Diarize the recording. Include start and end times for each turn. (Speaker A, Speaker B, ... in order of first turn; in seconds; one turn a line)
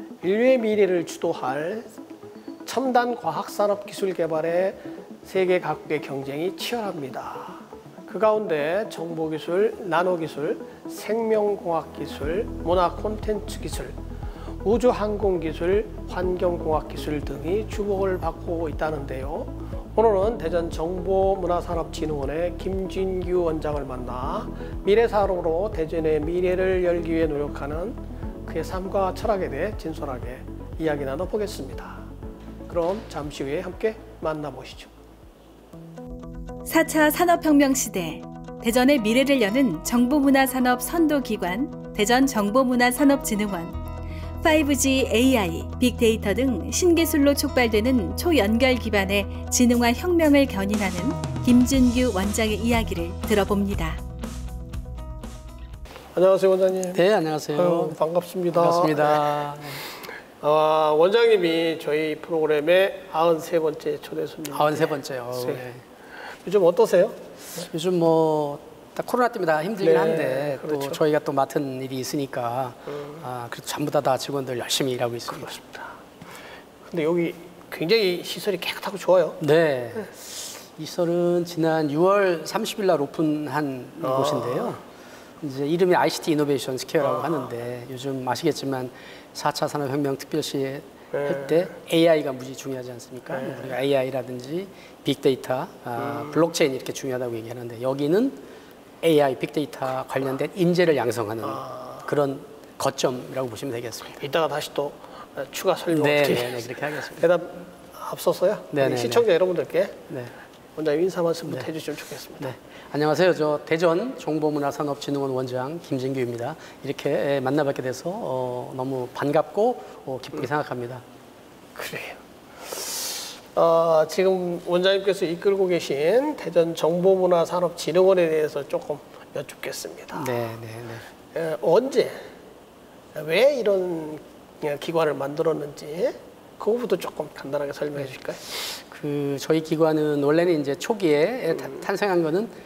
Speaker A: 0.2-1.9
Speaker A: 2.7-14.0
Speaker A: 14.6-32.1
Speaker A: 32.7-34.9
Speaker B: 36.7-43.8
Speaker B: 44.4-54.0
Speaker A: 56.1-59.5
Speaker C: 56.9-58.0
Speaker C: 58.5-59.8
Speaker A: 60.4-65.6
Speaker C: 64.5-65.8
Speaker A: 66.3-67.6
Speaker C: 67.6-75.7
Speaker A: 69.8-71.0
Speaker A: 75.4-75.9
Speaker A: 76.9-79.4
Speaker C: 79.4-84.8
Speaker A: 84.0-84.8
Speaker C: 85.4-98.4
Speaker A: 87.1-87.3
Speaker A: 91.1-91.6
Speaker A: 93.3-93.7
Speaker C: 99.0-104.2
Speaker A: 101.4-102.1
Speaker A: 104.2-110.0
Speaker C: 105.9-107.2
Speaker C: 108.7-109.3
Speaker C: 110.1-110.3
Speaker A: 110.8-112.5
Speaker C: 112.4-121.0
Speaker A: 121.8-130.3
Speaker C: 130.1-131.1
Speaker A: 131.3-132.3
Speaker A: 133.2-138.4
Speaker C: 138.8-142.5